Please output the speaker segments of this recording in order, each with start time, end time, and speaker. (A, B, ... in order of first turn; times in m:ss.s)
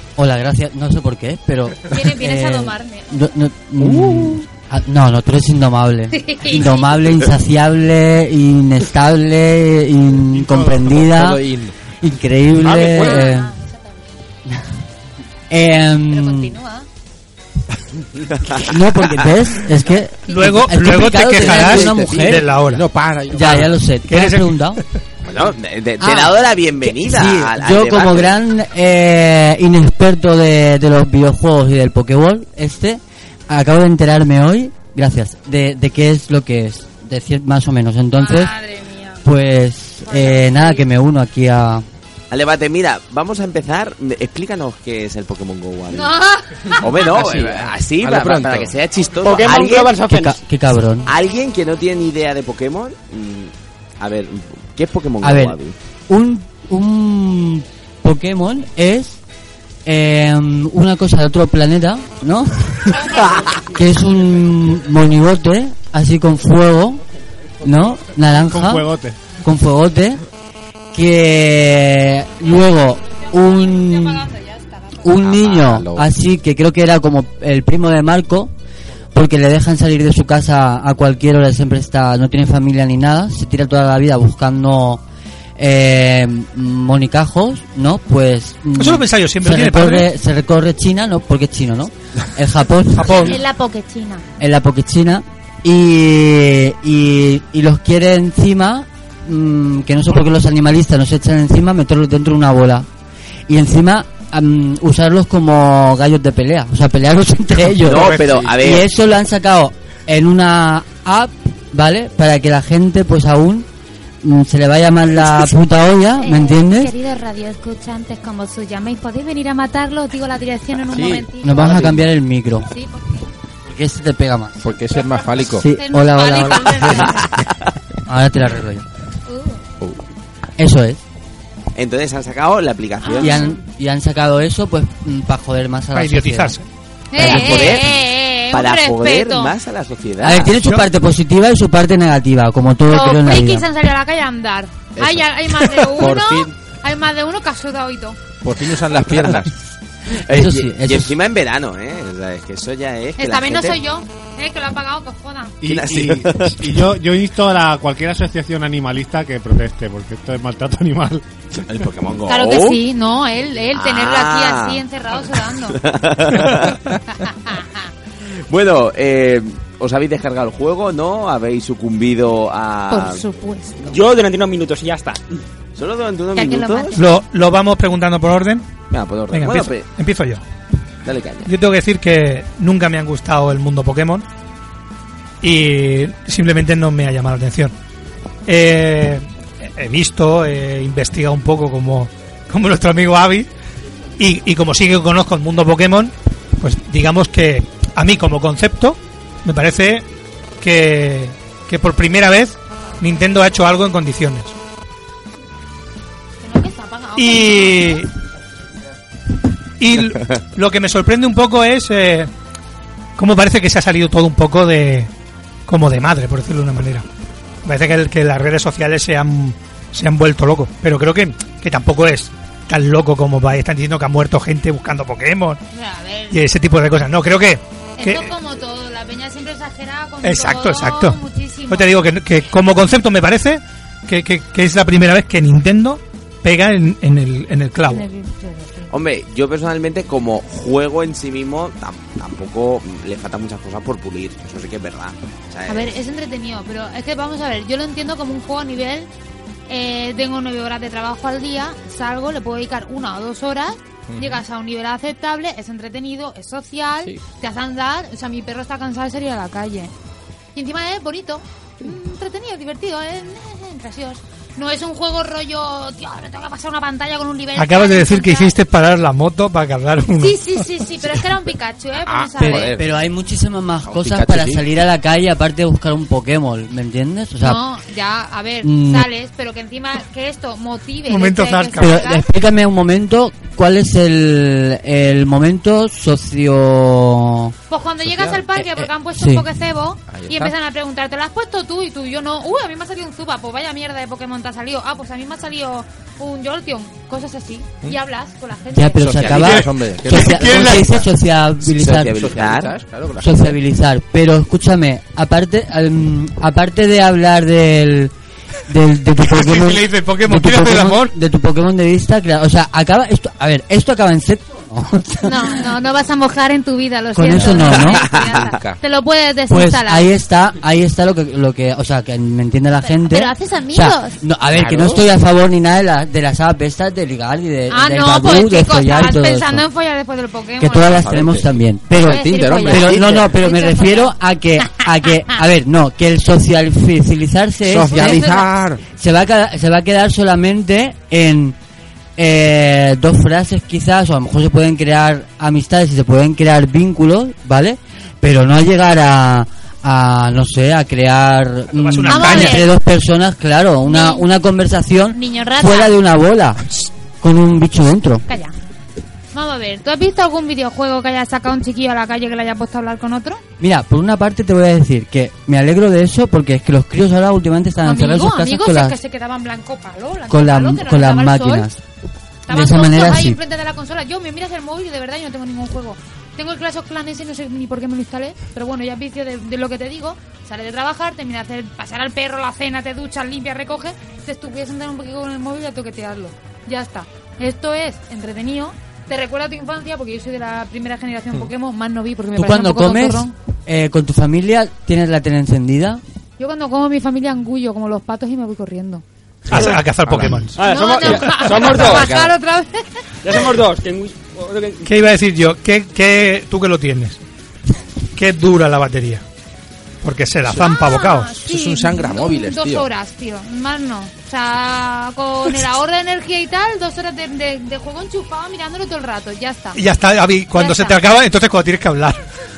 0:00.2-0:11.4 A
0:01.8-0:03.3 B
0:03.8-0:04.4 C
0:06.1-0:07.0 B
0:10.3-0:10.9 D
0:10.9-0:11.7 C
0:12.0-0:13.5 A
0:12.6-0:13.3 E
0:12.8-0:14.2 B
0:15.5-0:16.5 A
0:15.8-0:16.9 B
0:18.3-0:18.8 F
0:18.6-0:22.4 A
0:20.3-0:20.5 B
0:20.3-0:22.8 G
0:21.3-0:23.7 C
0:23.3-0:24.8 A
0:23.4-0:24.5 G
0:25.2-0:28.3 F
0:26.0-0:38.5 A
0:38.2-0:39.2 B
0:39.2-0:41.8 A
0:40.1-0:40.8 B
0:42.3-0:46.2 F
0:45.9-0:46.9 B
0:46.8-0:50.0 F
0:47.0-0:48.8 C
0:49.2-0:50.4 E
0:50.1-0:51.1 A
0:51.0-0:55.8 F
0:55.2-0:55.6 A
0:56.1-0:59.2 A
0:59.8-1:07.0 A
1:02.9-1:03.4 B
1:07.6-1:10.2 A
1:08.5-1:09.2 D
1:10.9-1:14.3 A
1:13.1-1:15.0 B
1:15.0-1:18.5 A
1:15.1-1:16.1 C
1:19.1-1:25.0 A
1:25.6-1:33.4 A
1:28.8-1:30.1 G
1:32.9-1:33.4 G
1:33.2-1:34.3 B
1:34.4-1:42.9 A
1:43.5-1:53.7 A
1:47.8-1:48.9 F
1:47.9-1:48.6 C
1:54.2-1:56.9 A
1:56.2-2:01.7 B
2:00.9-2:02.1 C
2:01.4-2:02.7 A
2:02.7-2:03.3 B
2:03.7-2:04.6 A
2:04.6-2:05.6 C
2:04.9-2:07.3 B
2:05.4-2:07.2 A
2:08.1-2:08.8 A
2:09.3-2:09.6 B
2:10.6-2:11.0 A
2:11.8-2:13.4 F
2:13.0-2:13.6 B
2:13.2-2:16.6 A
2:15.9-2:16.6 G
2:17.1-2:19.5 B
2:17.2-2:18.0 F
2:17.2-2:17.8 A
2:18.5-2:20.6 F
2:20.2-2:23.6 A
2:20.6-2:20.9 G
2:22.9-2:28.2 B
2:25.0-2:25.3 C
2:26.0-2:26.5 C
2:28.4-2:29.5 C
2:30.1-2:33.8 F
2:30.3-2:31.1 A
2:33.2-2:35.6 B
2:35.6-2:36.0 C
2:35.6-2:36.8 F
2:35.9-2:41.2 D
2:41.6-2:42.8 F
2:42.3-2:45.8 B
2:43.7-2:44.8 F
2:45.7-2:46.8 F
2:47.2-2:47.9 B
2:48.5-2:53.2 F
2:52.9-2:53.8 B
2:53.8-2:55.2 E
2:55.8-2:57.0 F
2:56.3-2:57.0 B
2:57.0-2:58.7 G
2:58.9-2:59.9 F
2:59.3-3:00.4 G
3:01.0-3:01.5 F
3:01.4-3:04.2 G
3:05.4-3:07.7 G
3:08.4-3:13.5 G
3:14.2-3:20.0 G
3:20.6-3:24.6 G
3:26.4-3:28.0 B
3:27.2-3:28.1 G
3:29.8-3:32.3 G
3:33.2-3:35.1 G
3:35.7-3:37.0 G
3:37.6-3:45.6 G
3:45.7-3:46.4 B
3:46.3-3:48.3 G
3:48.0-3:52.0 B
3:50.2-3:51.2 G
3:51.7-3:58.1 G
3:57.9-3:58.9 B
3:58.9-4:05.9 F
4:05.7-4:09.1 B
4:09.7-4:19.9 B
4:14.1-4:14.4 C
4:20.5-4:28.5 B
4:27.6-4:30.5 G
4:30.1-4:32.7 B
4:32.0-4:32.9 C
4:32.4-4:37.6 A
4:33.8-4:34.7 C
4:37.4-4:42.2 B
4:38.6-4:39.1 A
4:41.1-4:41.9 G
4:41.7-4:47.5 A
4:47.7-4:59.6 B
4:48.0-4:48.5 C
4:48.5-4:49.4 A
4:50.1-4:50.5 C
4:58.7-5:02.5 A
4:59.0-5:01.0 C
5:00.4-5:00.7 G
5:01.6-5:02.7 F
5:02.0-5:03.6 C
5:03.2-5:08.1 A
5:08.7-5:15.6 A
5:09.4-5:11.0 G
5:15.2-5:20.1 B
5:17.1-5:18.0 A
5:17.8-5:18.5 F
5:18.1-5:18.8 C
5:19.5-5:29.6 A
5:22.9-5:24.2 B
5:24.5-5:25.1 C
5:27.7-5:31.0 B
5:30.6-5:38.3 A
5:30.9-5:31.5 F
5:31.9-5:33.4 C
5:32.0-5:34.7 B
5:37.6-5:38.8 C
5:37.9-5:38.5 B
5:38.9-5:41.5 A
5:42.2-5:56.7 A
5:51.7-5:52.6 G
5:52.1-5:52.7 B
5:53.8-5:54.3 B
5:55.1-5:55.9 B
5:57.2-5:58.2 A
5:58.3-5:58.5 B
5:59.3-6:03.4 B
6:03.6-6:09.0 A
6:07.8-6:11.7 B
6:10.3-6:11.8 A
6:12.5-6:33.3 B
6:12.5-6:13.4 A
6:32.3-6:36.0 A
6:36.4-6:39.0 B
6:39.5-6:41.6 G
6:39.5-6:42.3 C
6:40.6-6:42.1 E
6:40.6-6:43.0 B
6:43.2-6:44.9 E
6:44.8-6:47.2 G
6:48.2-6:49.2 G
6:50.0-6:51.4 G
6:50.6-6:59.8 B
6:51.4-6:52.9 C
6:59.7-7:02.2 G
7:00.5-7:01.0 B